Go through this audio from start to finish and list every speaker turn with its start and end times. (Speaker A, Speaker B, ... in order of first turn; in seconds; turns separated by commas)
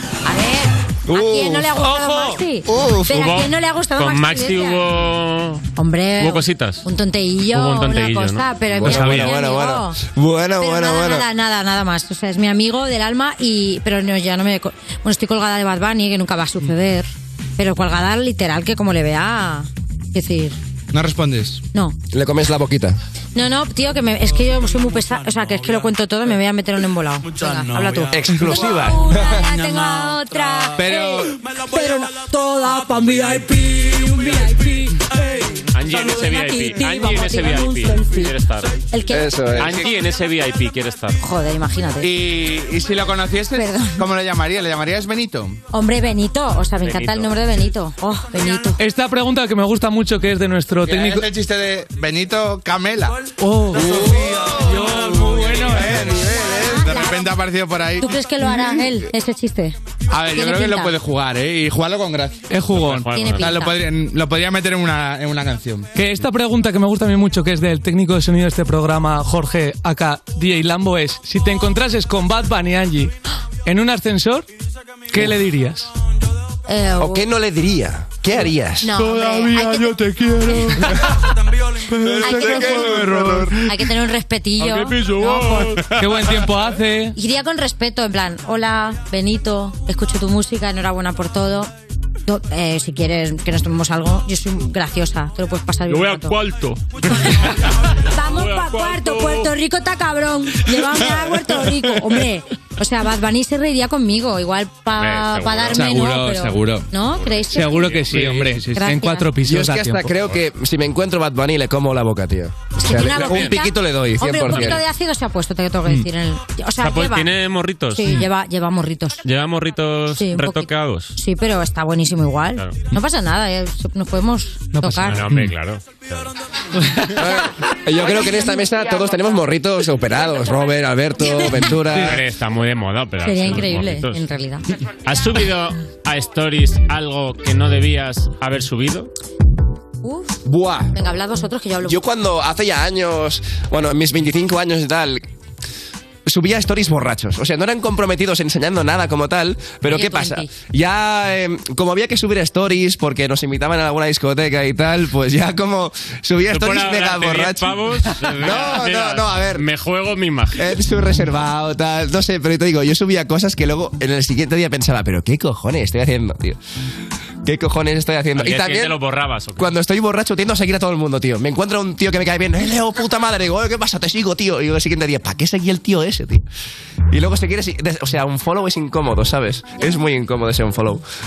Speaker A: 0.2-4.8, Speaker B: 1.1-1.7, Speaker C: 1.7-2.4, Speaker B: 2.7-3.3, Speaker D: 3.1-5.7, Speaker A: 5.8-10.0, Speaker D: 6.2-6.9, Speaker D: 7.5-9.3, Speaker B: 8.8-11.2, Speaker A: 10.6-20.6, Speaker E: 20.9-21.6, Speaker B: 22.1-23.0, Speaker A: 23.3-35.1, Speaker B: 28.1-29.4, Speaker C: 28.2-28.6, Speaker E: 30.8-31.4, Speaker D: 35.7-38.8, Speaker A: 36.0-38.3, Speaker A: 38.9-39.4, Speaker B: 39.1-39.8, Speaker D: 39.5-41.2, Speaker A: 41.2-42.1, Speaker E: 42.0-45.6, Speaker A: 43.5-44.0, Speaker A: 45.7-48.8, Speaker D: 46.8-47.3, Speaker C: 48.8-51.3, Speaker E: 50.9-53.2, Speaker C: 53.4-56.2, Speaker E: 53.7-58.2, Speaker A: 56.3-57.3, Speaker A: 58.0-59.8, Speaker E: 60.1-62.5, Speaker A: 60.3-60.9, Speaker C: 62.5-63.1, Speaker D: 62.7-63.6, Speaker A: 63.1-63.8, Speaker E: 63.4-65.9, Speaker C: 65.9-73.1, Speaker C: 73.6-74.5, Speaker C: 75.1-75.9, Speaker A: 76.7-77.2, Speaker B: 77.0-79.0, Speaker A: 78.8-80.9, Speaker C: 78.9-81.0, Speaker C: 81.9-83.9, Speaker A: 82.2-85.8, Speaker E: 82.8-83.4, Speaker D: 84.6-85.8, Speaker C: 85.8-87.1, Speaker A: 87.1-91.7, Speaker A: 92.2-96.4, Speaker D: 95.9-97.5, Speaker A: 97.2-97.5, Speaker A: 98.1-108.1, Speaker D: 98.2-99.5, Speaker D: 104.9-106.0, Speaker E: 105.7-106.9, Speaker D: 107.2-108.3, Speaker C: 107.5-110.2, Speaker E: 108.1-108.8, Speaker A: 108.7-109.3, Speaker B: 109.4-114.8, Speaker A: 112.8-117.3, Speaker D: 113.1-113.6, Speaker D: 114.5-114.8, Speaker D: 116.8-118.2, Speaker A: 117.9-119.2, Speaker D: 119.2-121.2, Speaker A: 120.2-125.2, Speaker C: 124.7-125.5, Speaker D: 125.0-126.3, Speaker B: 127.1-132.2, Speaker A: 131.2-131.7, Speaker D: 131.9-134.2, Speaker A: 133.2-134.6, Speaker D: 135.1-139.1, Speaker A: 140.0-140.4, Speaker B: 140.4-140.9, Speaker A: 140.9-142.0, Speaker B: 141.8-145.2, Speaker B: 146.2-159.6, Speaker A: 149.9-150.5, Speaker D: 156.5-160.7, Speaker B: 160.6-166.6, Speaker B: 167.4-169.0, Speaker D: 168.3-169.7, Speaker B: 169.6-176.4, Speaker B: 177.1-181.0